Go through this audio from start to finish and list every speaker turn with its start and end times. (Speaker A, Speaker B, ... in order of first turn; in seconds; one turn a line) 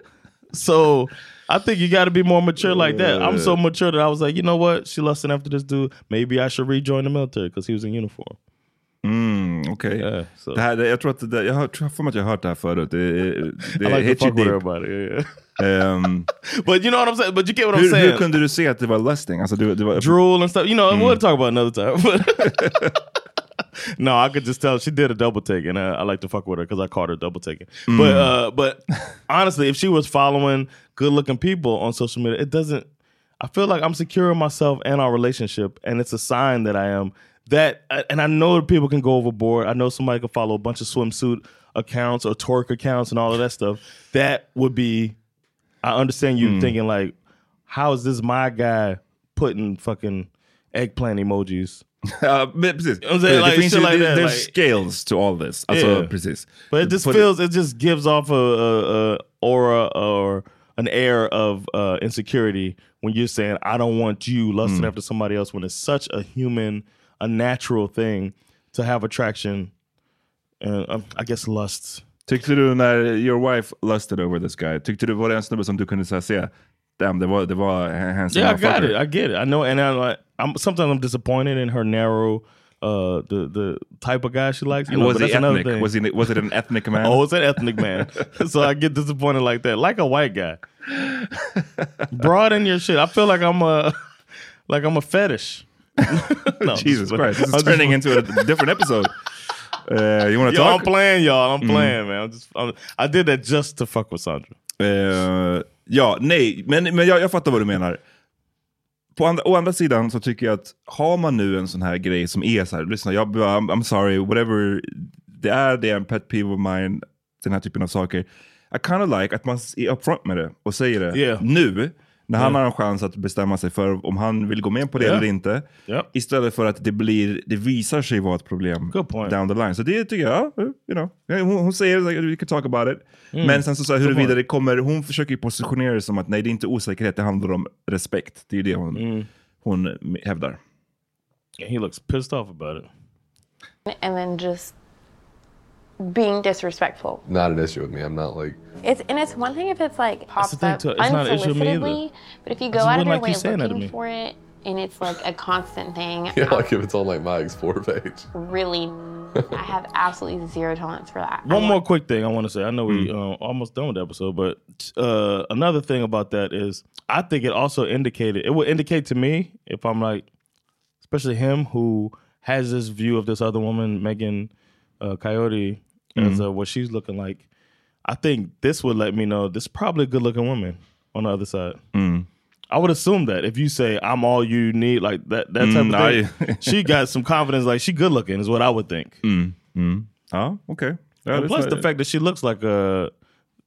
Speaker A: 0.5-8.4
Speaker B: 2.6-3.6
Speaker B: 9.0-14.6
Speaker A: 10.0-10.6
Speaker A: 13.8-15.3
Speaker B: 15.6-16.3
Speaker A: 16.6-18.3
Speaker B: 17.7-20.2
Speaker A: 20.0-22.8
Speaker B: 20.9-21.2
Speaker B: 22.5-22.9
Speaker A: 24.0-32.9
Speaker B: 27.9-28.3
Speaker A: 33.4-45.1
Speaker A: 45.8-47.1
Speaker B: 46.4-46.7
Speaker A: 47.7-51.8
Speaker B: 52.1-57.3
Speaker A: 53.0-54.5
Speaker A: 55.7-56.1
Speaker A: 56.7-69.7
Speaker B: 64.7-64.9
Speaker A: 70.6-72.0
Speaker B: 72.3-79.0
Speaker A: 78.3-85.9
Speaker B: 84.9-87.2
Speaker A: 87.0-90.6
Speaker B: 87.8-88.3
Speaker B: 90.9-92.1
Speaker A: 92.1-93.9
Speaker A: 94.7-98.5
Speaker B: 96.7-99.1
Speaker B: 99.9-100.9
Speaker A: 100.5-104.6
Speaker B: 101.6-102.0
Speaker B: 104.8-108.0
Speaker B: 109.2-139.1
Speaker A: 121.1-121.4
Speaker A: 125.0-125.3
Speaker A: 128.9-129.4
Speaker A: 133.3-134.3
Speaker A: 138.9-139.3
Speaker B: 139.6-140.6
Speaker A: 141.6-142.9
Speaker C: 143.9-144.7
Speaker C: 146.0-147.2
Speaker D: 147.2-148.6
Speaker C: 148.8-156.7
Speaker A: 150.4-152.0
Speaker A: 152.7-153.9
Speaker D: 156.3-158.3
Speaker C: 158.3-159.0
Speaker C: 159.5-161.8
Speaker A: 161.4-170.3
Speaker A: 171.0-177.4
Speaker B: 176.2-176.4
Speaker A: 178.1-181.8
Speaker B: 181.9-182.3
Speaker A: 182.7-189.2
Speaker B: 185.6-186.9
Speaker B: 189.2-191.9
Speaker A: 191.3-193.1